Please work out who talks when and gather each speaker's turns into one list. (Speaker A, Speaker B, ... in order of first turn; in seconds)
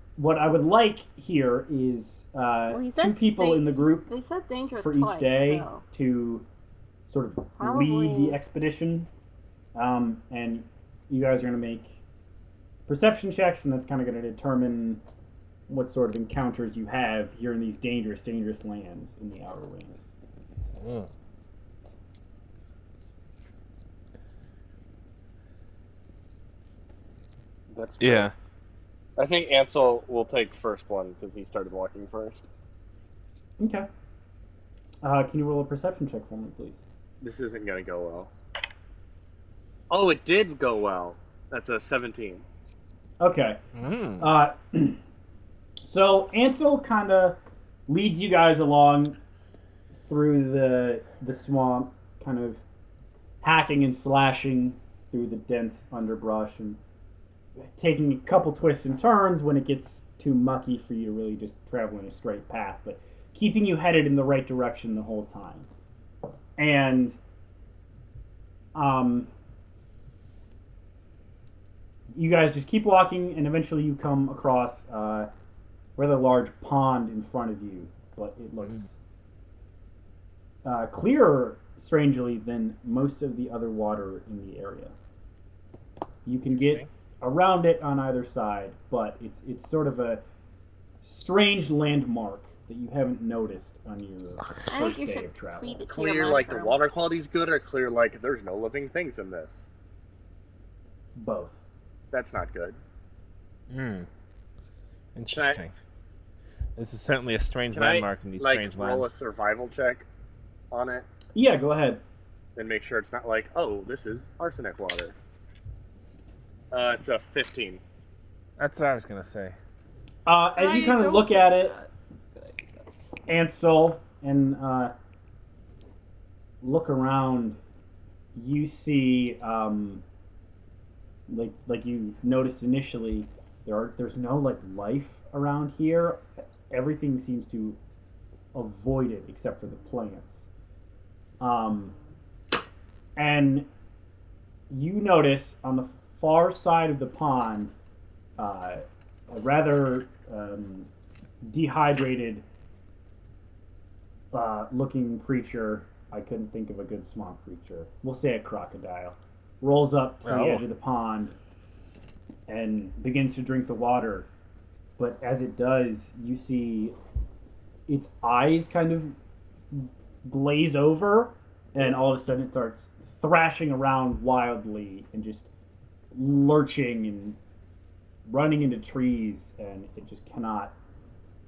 Speaker A: 0.2-4.1, 4.8-6.5, 7.1-9.1, 9.8-12.0, 12.9-15.0, 15.7-20.0, 33.6-33.9, 35.0-36.8, 43.2-43.6, 44.2-45.0, 45.8-49.2, 50.0-52.6, 53.4-56.8, 57.6-65.7, 66.6-67.2, 68.8-69.3, 72.1-75.3, 76.0-79.0, 80.6-85.0, 86.3-90.2, 91.0-95.9, 101.2-101.6, 111.3-112.0, 120.3-121.8, 123.3-124.9, 126.6-127.6, 128.3-130.0, 131.3-137.8, 138.5-140.5, 141.4-142.0, 143.2-143.7, 144.7-147.7, 148.4-150.9, 151.4-152.4, 154.3-161.3, 162.5-164.3, 165.0-167.0, 167.9-169.2, 169.7-175.5, 176.1-177.4, 178.3-180.8
Speaker B: 2.7-5.8, 7.6-8.4, 94.7-96.9
Speaker C: 20.8-21.1, 28.0-28.3, 43.8-44.3, 86.5-86.9, 103.7-104.1, 105.2-105.7, 106.8-109.1, 118.6-119.6, 160.2-160.7
Speaker D: 27.7-28.3, 29.2-32.4, 37.2-38.3, 39.9-42.5, 95.9-99.7, 102.1-102.8, 105.3-105.6, 107.7-110.1, 110.7-111.1, 112.6-115.2, 116.7-117.8
Speaker E: 120.6-122.9